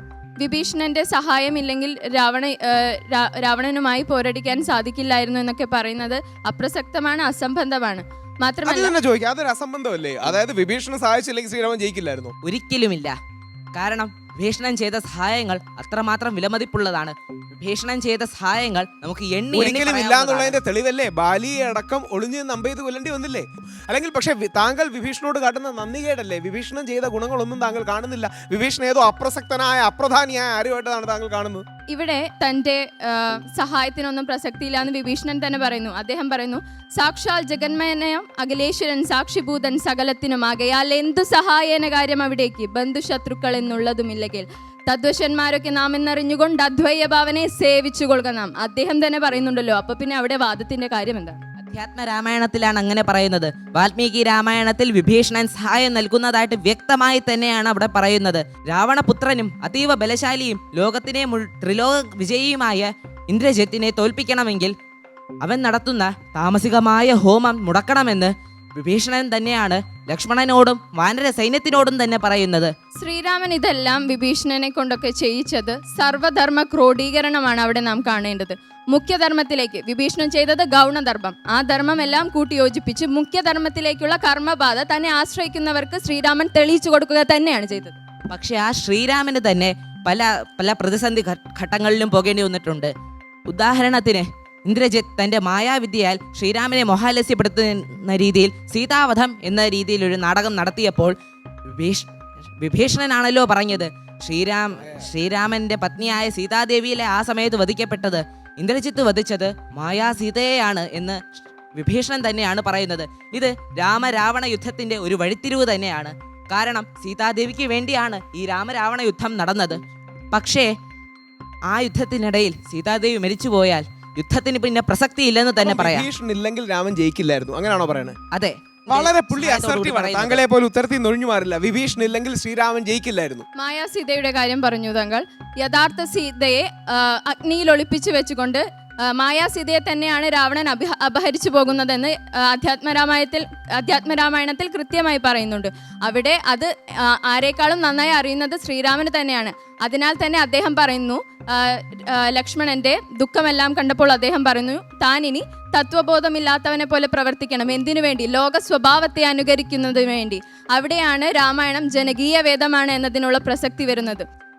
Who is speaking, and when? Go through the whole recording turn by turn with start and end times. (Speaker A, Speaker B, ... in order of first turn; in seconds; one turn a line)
Speaker A: 0.4-8.9
Speaker B: 8.7-12.3
Speaker C: 12.4-13.2
Speaker C: 13.7-20.6
Speaker B: 19.5-31.6
Speaker A: 31.9-51.4
Speaker C: 51.6-64.7
Speaker C: 65.4-72.7
Speaker A: 73.0-88.0
Speaker C: 88.3-92.9
Speaker C: 93.5-101.1
Speaker C: 101.7-111.2
Speaker B: 104.8-105.0
Speaker C: 111.7-119.8
Speaker C: 120.3-120.7
Speaker C: 121.7-126.1
Speaker B: 125.6-128.2
Speaker C: 128.3-130.4
Speaker B: 128.9-133.4
Speaker A: 133.6-164.2